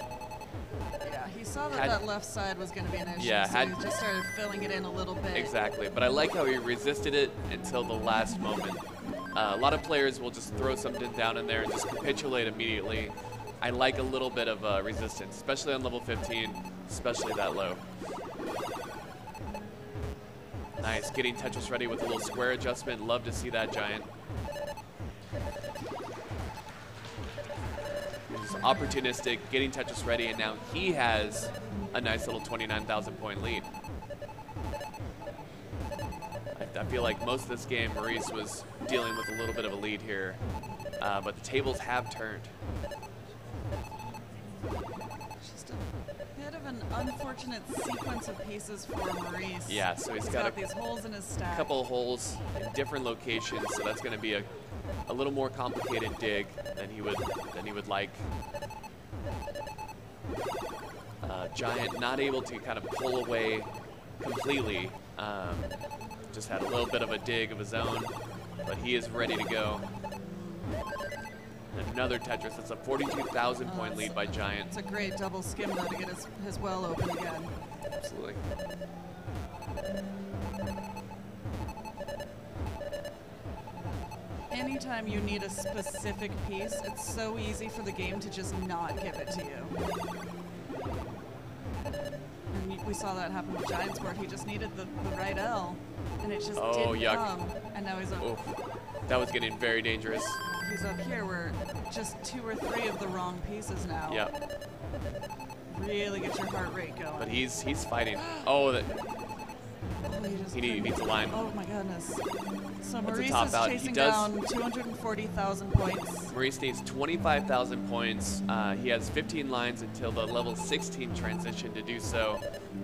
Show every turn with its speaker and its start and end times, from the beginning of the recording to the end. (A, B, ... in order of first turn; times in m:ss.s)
0:01.0-0:05.5 A
0:01.7-0:02.0 B
0:03.2-0:03.8 B
0:05.3-0:08.8 B
0:09.4-0:17.8 B
0:20.8-0:24.1 B
0:28.3-0:33.7 B
0:36.6-0:40.4 B
0:41.0-0:42.5 B
0:45.4-0:51.7 A
0:49.7-0:50.6 B
0:51.5-0:54.5 B
0:55.1-0:58.3 B
1:01.2-1:05.8 B
1:06.3-1:08.1 B
1:08.7-1:09.8 B
1:10.2-1:10.7 A
1:11.7-1:14.7 B
1:13.6-1:17.6 A
1:18.0-1:18.4 B
1:24.5-1:29.8 A
1:32.5-1:38.3 A
1:36.6-1:37.3 B
1:38.2-1:40.4 B
1:40.6-1:44.3 A
1:44.1-1:44.3 B
1:45.7-1:47.3 A
1:47.2-1:48.9 B
1:48.2-1:48.5 A
1:50.0-1:52.2 A
1:50.5-1:51.4 B
1:52.8-1:56.3 A
1:53.1-1:54.3 B
1:56.3-2:02.4 B